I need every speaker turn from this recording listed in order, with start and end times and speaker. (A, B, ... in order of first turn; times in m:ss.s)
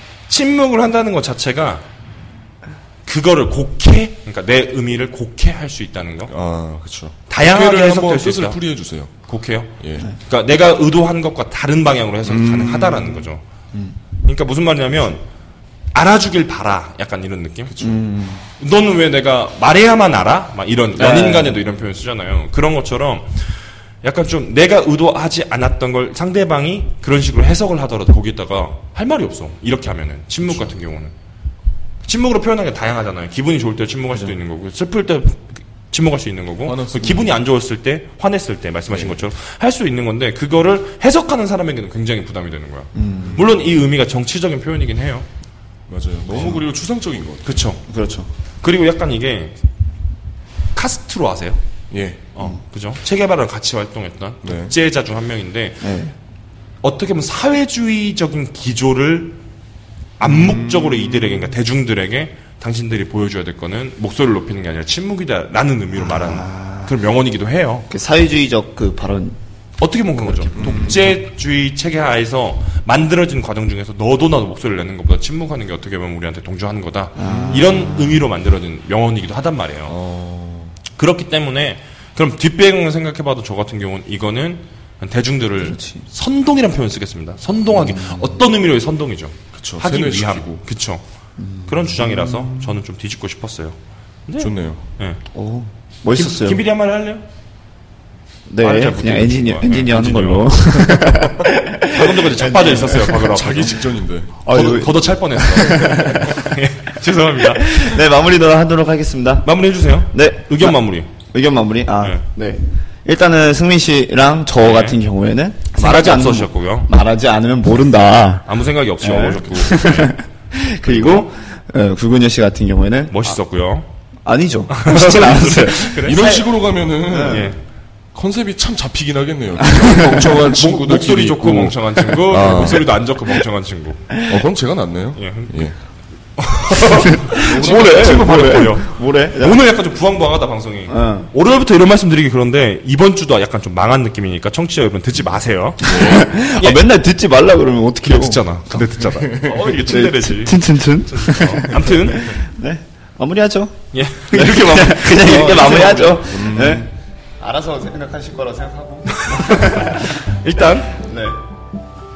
0:00.3-0:01.8 A
0:03.0-0:06.3 A
0:06.3-0:09.2 B
0:07.3-0:08.6 A
0:09.2-0:13.4 A
0:09.8-0:10.1 B
0:12.3-0:13.3 B
0:14.2-0:15.2 A
0:15.9-0:17.8 A
0:17.7-0:18.0 B
0:17.8-0:18.4 C
0:18.6-0:23.5 A
0:21.0-0:21.6 C
0:24.0-0:31.1 A
0:32.0-0:45.3 A
0:36.6-0:37.4 B
0:38.9-0:39.2 B
0:42.9-0:43.4 C
0:45.9-0:47.6 B
0:46.3-0:46.6 C
0:47.4-0:47.8 A
0:47.9-0:48.3 C
0:48.6-0:49.6 A
0:50.7-0:51.6 A
0:51.9-0:52.3 B
0:52.3-0:55.9 A
0:54.4-0:54.7 B
0:55.8-0:56.1 C
0:56.8-0:59.4 A
1:00.2-1:07.9 A
1:00.6-1:01.5 B
1:05.9-1:06.9 C
1:07.9-1:09.4 C
1:09.8-1:19.9 A
1:10.1-1:10.9 C
1:10.5-1:11.2 B
1:17.2-1:18.3 C
1:17.2-1:17.8 B
1:19.8-1:20.8 B
1:20.9-1:31.0 A
1:25.6-1:26.0 C
1:27.7-1:28.4 C
1:29.5-1:30.6 B
1:31.4-1:32.7 C
1:31.7-1:33.8 A
1:34.3-1:35.2 A
1:34.4-1:34.8 B
1:35.3-1:36.6 C
1:36.1-1:37.2 A
1:38.5-1:43.2 C
1:38.6-1:41.2 A
1:41.9-1:43.8 A
1:42.7-1:44.4 B
1:44.4-1:46.5 C
1:44.5-1:48.0 A
1:47.5-1:49.5 C
1:49.4-1:51.1 A
1:50.0-2:03.4 C
1:52.0-1:52.2 A
1:54.6-1:55.0 A
1:55.7-1:56.9 A
1:58.4-2:00.2 A
2:00.8-2:01.3 A
2:03.1-2:03.9 A
2:04.2-2:07.5 C
2:04.7-2:06.3 A
2:05.9-2:07.5 B
2:07.2-2:07.6 A
2:08.1-2:12.9 B
2:09.7-2:10.3 C
2:10.4-2:14.0 A
2:14.1-2:14.4 C
2:14.2-2:15.8 B
2:15.1-2:15.7 A
2:16.4-2:26.9 A
2:16.7-2:19.6 C
2:17.1-2:18.5 B
2:20.9-2:21.3 C
2:25.8-2:26.2 B
2:25.8-2:33.7 C
2:28.0-2:32.4 A
2:33.9-2:36.3 A
2:34.3-2:40.1 C
2:35.3-2:36.9 B
2:39.1-2:41.0 A
2:40.9-2:41.4 C